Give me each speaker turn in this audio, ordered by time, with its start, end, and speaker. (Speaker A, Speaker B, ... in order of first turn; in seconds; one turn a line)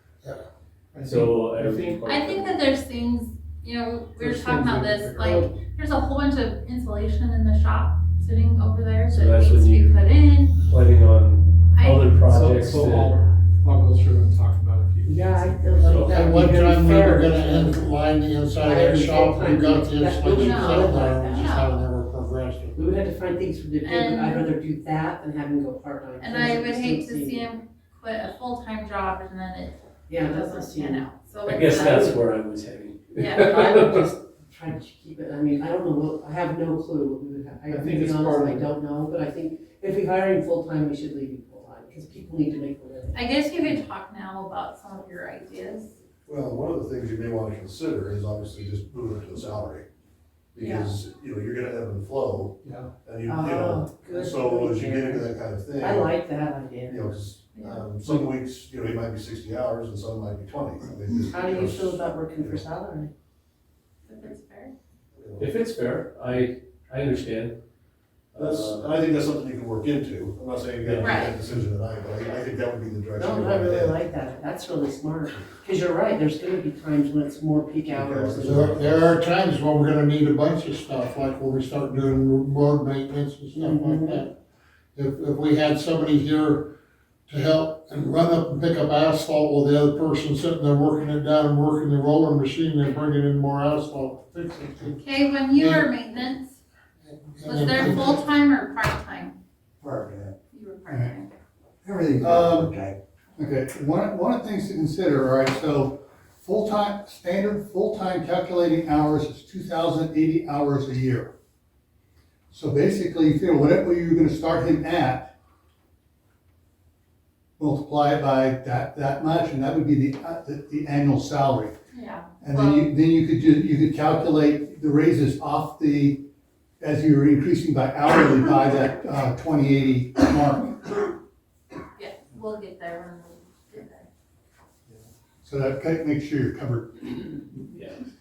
Speaker A: 0.9-2.5
Speaker B: 1.0-2.7
Speaker C: 2.1-10.6
Speaker A: 4.2-5.6
Speaker B: 9.1-10.1
Speaker B: 10.6-13.1
Speaker C: 11.7-12.1
Speaker A: 12.3-16.1
Speaker D: 15.0-18.0
Speaker E: 15.8-22.7
Speaker D: 18.5-21.7
Speaker D: 22.7-27.5
Speaker C: 23.8-24.5
Speaker C: 26.2-32.0
Speaker D: 30.1-31.1
Speaker B: 31.5-34.0
Speaker D: 31.6-32.2
Speaker C: 33.1-33.6
Speaker D: 33.5-43.8
Speaker A: 37.7-38.7
Speaker C: 43.1-45.9
Speaker F: 46.2-49.8
Speaker F: 50.5-56.1
Speaker A: 52.6-52.9
Speaker D: 53.2-57.1
Speaker F: 56.9-62.7
Speaker C: 57.5-57.8
Speaker D: 61.2-63.1
Speaker C: 64.0-64.7
Speaker F: 65.1-65.5
Speaker B: 65.4-67.5
Speaker F: 68.3-74.0
Speaker B: 68.4-68.8
Speaker A: 70.8-71.2
Speaker C: 71.0-71.3
Speaker D: 73.1-78.8
Speaker F: 77.9-79.2
Speaker E: 78.4-84.3
Speaker D: 83.5-84.3
Speaker E: 84.9-86.7
Speaker E: 87.3-95.0
Speaker C: 95.0-96.5
Speaker E: 95.5-95.9
Speaker E: 97.0-98.3
Speaker C: 97.4-99.3
Speaker C: 100.5-101.3
Speaker G: 100.9-101.1
Speaker F: 102.2-102.8
Speaker G: 102.2-102.7
Speaker G: 103.4-111.3
Speaker G: 112.5-115.3
Speaker G: 117.6-121.7
Speaker C: 121.9-122.8
Speaker G: 122.4-126.2
Speaker G: 126.8-130.9
Speaker C: 131.9-134.1
Speaker G: 135.4-136.9
Speaker B: 137.7-138.0